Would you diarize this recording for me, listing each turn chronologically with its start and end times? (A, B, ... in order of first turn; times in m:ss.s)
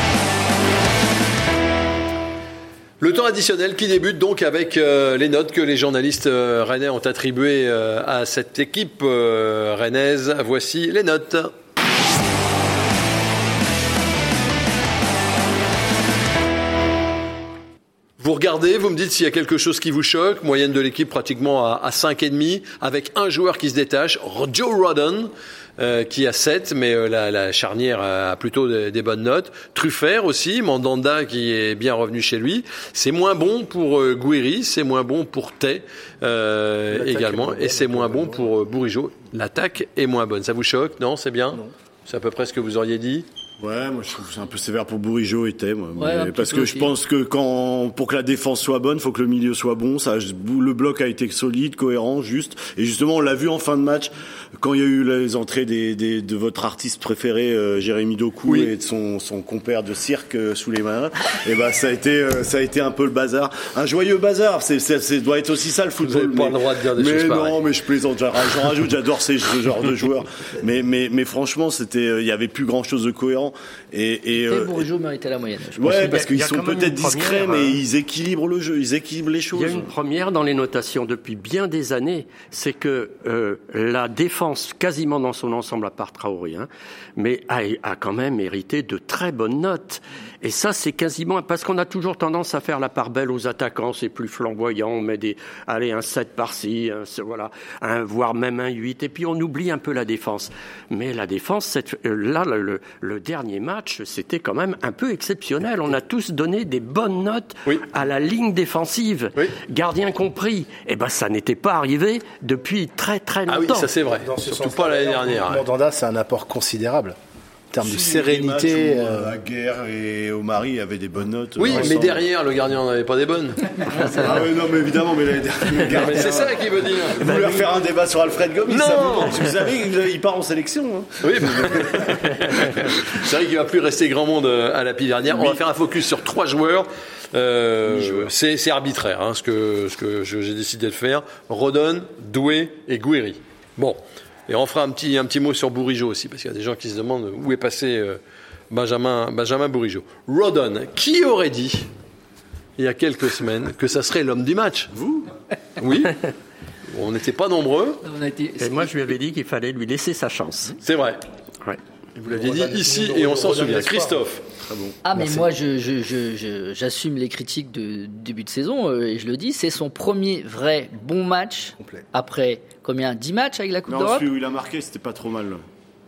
0:03.0-0:11.5 A
0:18.2-0:43.2 A
0:36.9-0:38.5 B
0:43.6-1:14.8 C
0:46.0-0:46.9 D
1:06.0-1:07.6 A
1:14.4-1:16.1 D
1:15.8-1:19.9 C
1:15.8-1:17.8 E
1:19.5-1:53.9 E
1:53.5-1:55.6 A
1:54.2-1:57.2 B
1:57.7-1:59.4 B
1:57.8-2:02.2 C
2:01.6-2:04.0 A
2:04.0-2:12.9 C
2:05.9-2:07.5 A
2:07.3-2:07.6 E
2:08.7-2:09.4 A
2:11.2-2:28.2 A
2:15.3-2:15.6 C
2:28.7-2:31.9 A
2:32.8-2:34.9 A
2:34.9-2:35.3 C
2:35.8-2:36.2 A
2:36.9-2:38.0 A
2:38.0-2:39.0 D
2:38.6-2:40.8 E
2:40.8-2:41.2 A
2:42.2-2:44.2 B
2:42.2-2:44.4 A
2:44.6-2:45.0 C
2:45.0-2:54.3 D
2:45.2-2:45.4 B
2:51.8-2:52.0 B
2:53.9-2:55.6 C